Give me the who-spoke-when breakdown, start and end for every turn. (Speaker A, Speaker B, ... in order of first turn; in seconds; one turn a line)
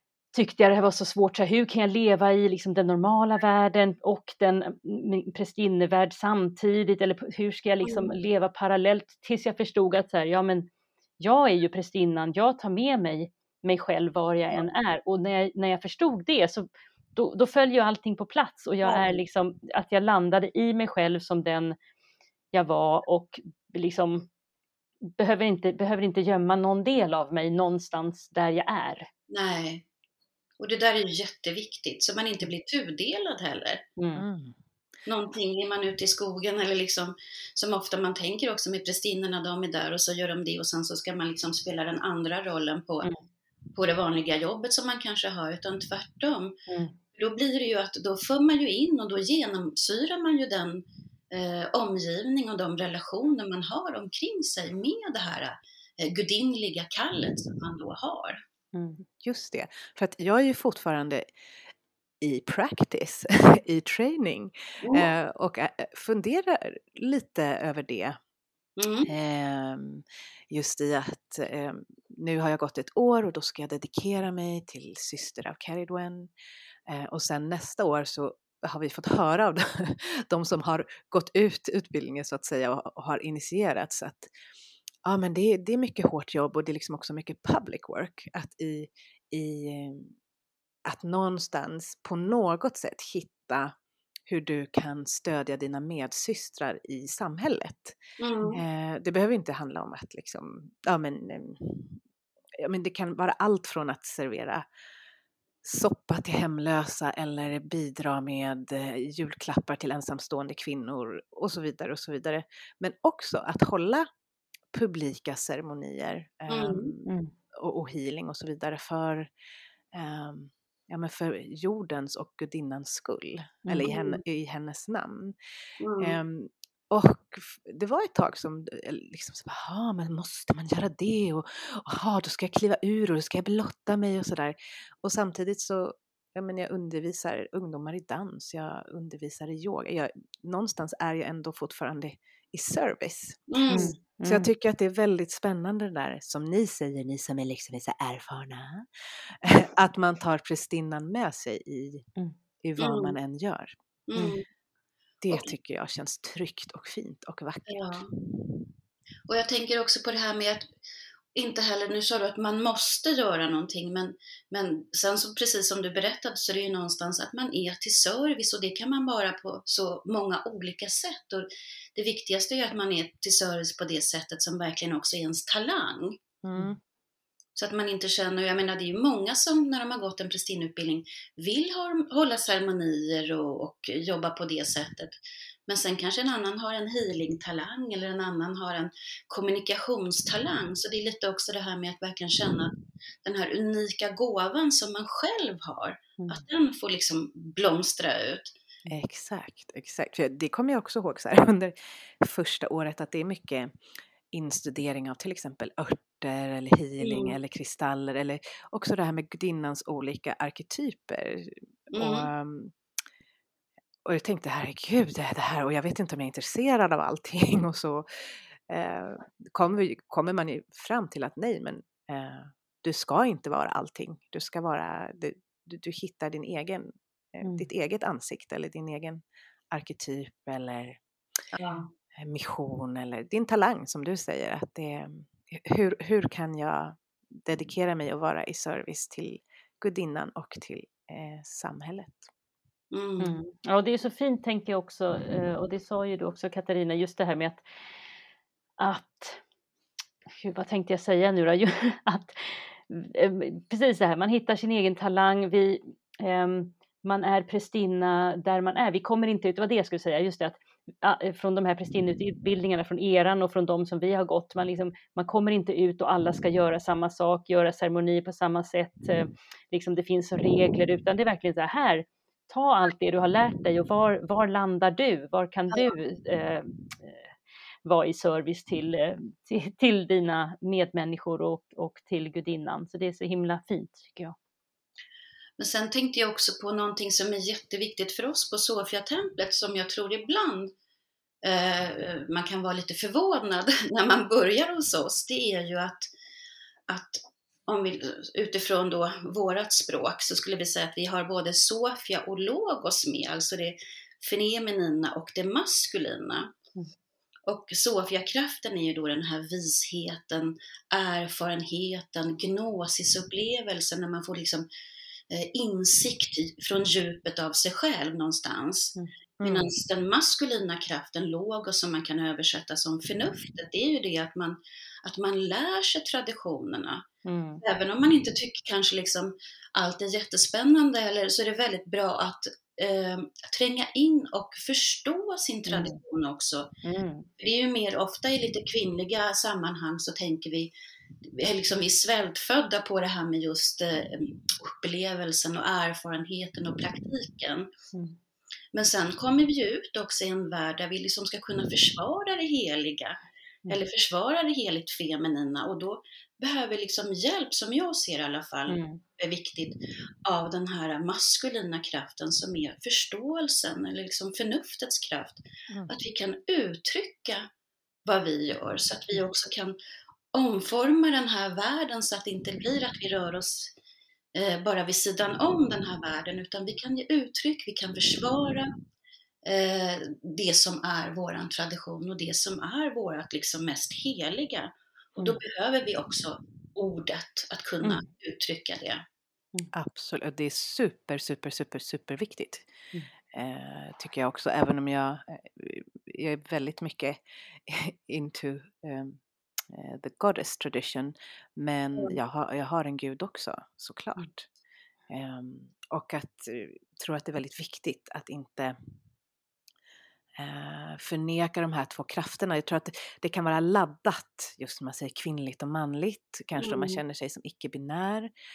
Speaker A: 0.3-10.7
Speaker B: 7.8-8.1
Speaker A: 11.2-21.7
Speaker B: 18.8-19.2
Speaker A: 22.5-24.3
Speaker A: 25.0-29.1
Speaker B: 29.3-29.8
Speaker B: 30.6-33.9
Speaker A: 34.0-34.2
Speaker C: 34.1-34.5
Speaker B: 35.0-43.1
Speaker B: 43.7-46.6
Speaker A: 46.7-47.0
Speaker B: 47.1-58.4
Speaker A: 58.7-59.0
Speaker C: 59.2-61.2
Speaker C: 62.2-68.2
Speaker B: 64.8-65.1
Speaker B: 68.8-69.1
Speaker C: 69.0-76.3
Speaker C: 76.9-84.3
Speaker C: 85.0-90.1
Speaker C: 90.8-93.7
Speaker C: 94.3-98.0
Speaker B: 98.2-98.6
Speaker C: 98.5-102.0
Speaker C: 102.6-104.7
Speaker C: 105.6-114.0
Speaker C: 114.7-119.3
Speaker B: 116.5-116.9
Speaker A: 117.0-117.3
Speaker C: 119.9-125.3
Speaker A: 123.6-123.9
Speaker B: 123.8-124.2
Speaker B: 125.8-126.2
Speaker C: 126.0-152.1
Speaker B: 143.5-143.9
Speaker A: 143.7-144.5
Speaker C: 152.6-153.7
Speaker B: 152.8-153.2
Speaker B: 154.1-154.4
Speaker C: 155.2-158.0
Speaker B: 157.7-158.1
Speaker B: 159.3-160.7
Speaker B: 161.3-176.2
Speaker C: 176.4-176.8
Speaker B: 177.6-185.1
Speaker B: 185.7-198.5
Speaker C: 198.9-203.8
Speaker C: 204.3-212.7
Speaker B: 207.0-207.3
Speaker B: 211.9-212.3
Speaker C: 214.0-218.1
Speaker C: 218.7-231.0
Speaker A: 227.4-227.7
Speaker B: 231.5-231.9
Speaker C: 232.1-242.3
Speaker B: 242.9-243.3
Speaker A: 243.2-247.6
Speaker A: 248.8-249.4
Speaker A: 250.3-277.2
Speaker A: 277.8-284.4
Speaker B: 285.6-290.7
Speaker B: 291.4-296.1
Speaker B: 296.9-306.5
Speaker B: 307.4-314.6
Speaker B: 315.3-327.0
Speaker C: 319.4-319.7
Speaker A: 327.2-327.6
Speaker B: 327.6-336.7
Speaker A: 335.7-336.0
Speaker A: 336.8-337.3
Speaker B: 337.4-340.7
Speaker B: 341.2-347.7
Speaker B: 348.7-353.2
Speaker B: 353.7-367.5
Speaker A: 358.7-359.0
Speaker B: 368.0-369.7
Speaker B: 370.3-373.7
Speaker B: 374.3-378.7
Speaker B: 379.4-389.0
Speaker C: 389.7-392.7
Speaker C: 393.3-404.5
Speaker C: 405.1-408.8
Speaker C: 410.4-418.3
Speaker B: 416.6-417.0